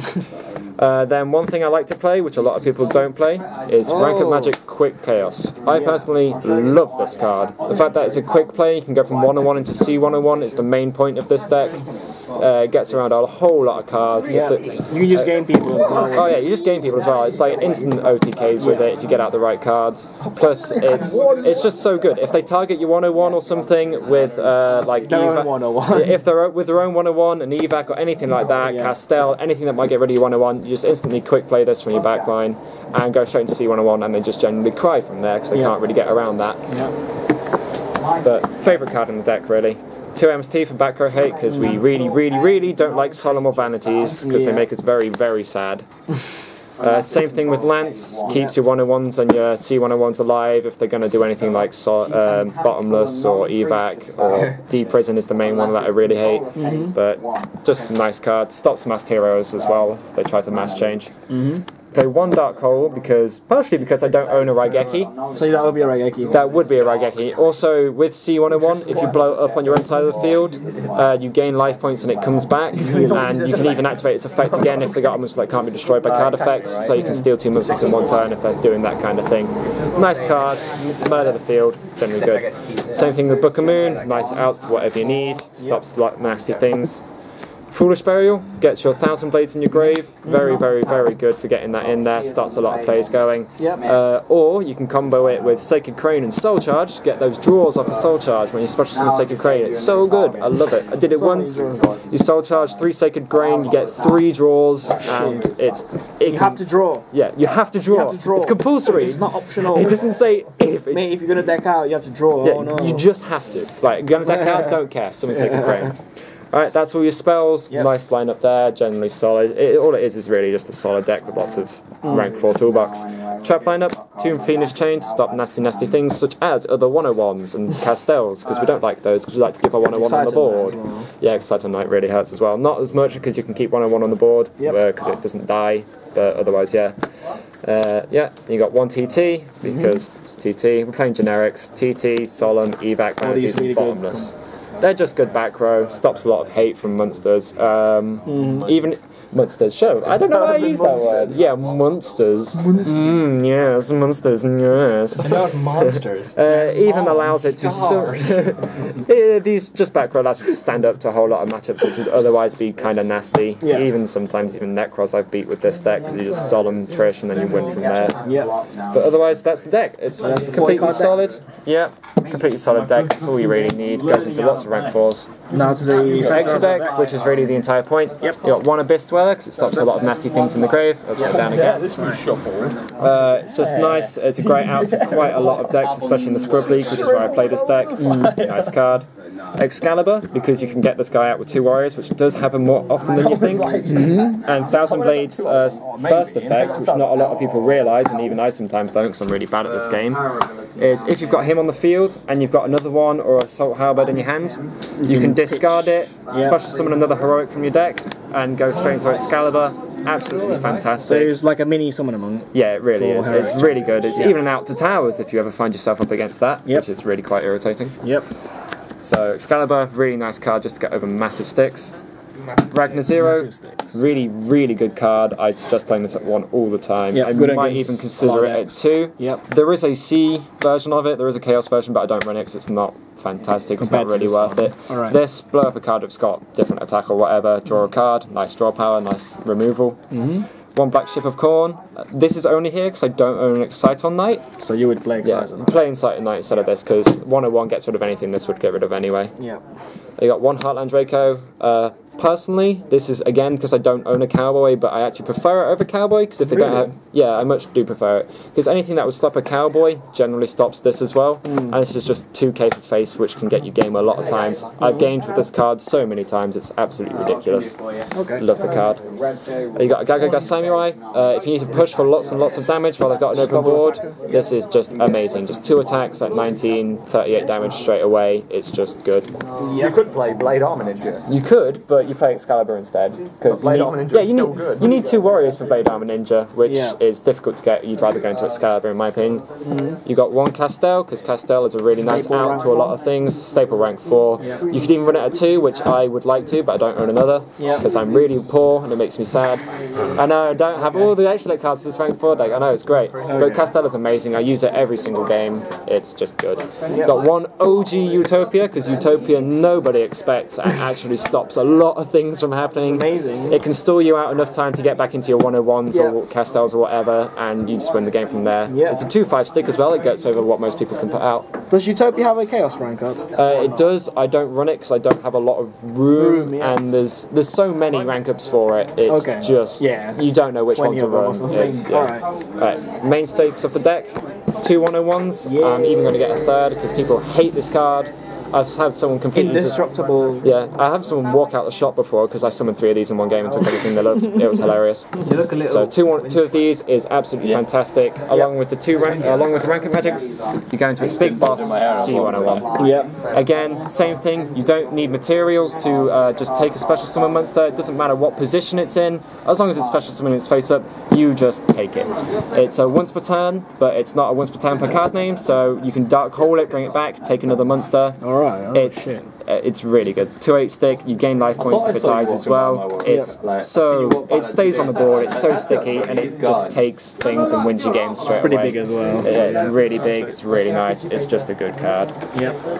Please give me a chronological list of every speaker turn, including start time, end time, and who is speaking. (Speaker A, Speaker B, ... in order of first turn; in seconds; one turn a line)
Speaker A: 0.7-15.4
Speaker B: 3.9-4.5
Speaker B: 5.7-6.0
Speaker B: 14.3-16.4
Speaker A: 16.1-36.6
Speaker B: 18.6-18.8
Speaker B: 25.1-26.2
Speaker B: 28.6-28.9
Speaker B: 36.7-36.9
Speaker A: 38.2-45.9
Speaker B: 41.5-41.8
Speaker B: 44.2-44.7
Speaker A: 46.8-61.1
Speaker B: 48.2-48.5
Speaker B: 56.5-56.9
Speaker B: 61.3-61.6
Speaker A: 61.9-65.1
Speaker B: 65.3-66.4
Speaker A: 66.2-87.0
Speaker B: 72.8-73.2
Speaker B: 77.0-77.3
Speaker A: 87.7-111.1
Speaker B: 90.3-90.6
Speaker B: 101.1-101.8
Speaker B: 105.0-105.5
Speaker B: 106.2-107.0
Speaker B: 107.9-110.1
Speaker B: 110.9-113.0
Speaker A: 112.4-116.0
Speaker B: 114.2-115.9
Speaker A: 116.5-136.9
Speaker B: 129.8-131.1
Speaker A: 137.6-168.2
Speaker B: 139.6-139.9
Speaker B: 143.2-144.3
Speaker B: 148.3-148.7
Speaker B: 155.3-156.2
Speaker C: 156.9-158.0
Speaker B: 163.6-163.9
Speaker B: 168.2-168.5
Speaker A: 168.9-175.3
Speaker B: 170.2-171.3
Speaker B: 175.5-176.9
Speaker A: 176.1-181.9
Speaker C: 181.4-182.8
Speaker B: 181.9-182.2
Speaker A: 183.0-211.4
Speaker B: 183.6-184.1
Speaker B: 187.9-188.4
Speaker B: 193.8-194.4
Speaker B: 196.5-196.9
Speaker B: 205.0-206.6
Speaker B: 211.1-214.3
Speaker A: 212.5-218.0
Speaker A: 219.0-221.9
Speaker A: 222.7-240.0
Speaker B: 223.1-223.9
Speaker B: 227.1-229.4
Speaker B: 233.8-235.2
Speaker B: 240.1-240.4
Speaker A: 240.7-244.4
Speaker B: 244.6-245.7
Speaker A: 245.2-249.3
Speaker A: 250.2-267.8
Speaker B: 256.4-256.9
Speaker B: 261.4-261.8
Speaker B: 268.1-268.4
Speaker A: 268.3-269.0
Speaker A: 269.7-279.3
Speaker B: 273.4-274.1
Speaker B: 279.6-279.9
Speaker C: 279.8-281.2
Speaker A: 281.3-289.4
Speaker C: 283.5-284.7
Speaker B: 286.6-287.0
Speaker B: 289.6-290.0
Speaker A: 290.0-321.5
Speaker B: 292.0-292.9
Speaker B: 297.6-297.9
Speaker B: 303.2-303.7
Speaker B: 306.9-307.1
Speaker B: 312.8-313.6
Speaker B: 315.9-316.2
Speaker B: 318.7-319.0
Speaker B: 321.7-323.5
Speaker A: 323.3-339.8
Speaker B: 326.1-326.8
Speaker B: 329.1-332.2
Speaker B: 335.4-336.1
Speaker B: 339.3-340.4
Speaker A: 340.4-352.8
Speaker B: 345.2-345.9
Speaker C: 351.8-352.4
Speaker B: 352.7-353.1
Speaker A: 353.3-368.2
Speaker B: 368.2-369.3
Speaker A: 368.7-382.1
Speaker C: 371.9-375.1
Speaker B: 373.0-373.4
Speaker C: 376.1-376.5
Speaker B: 378.2-379.7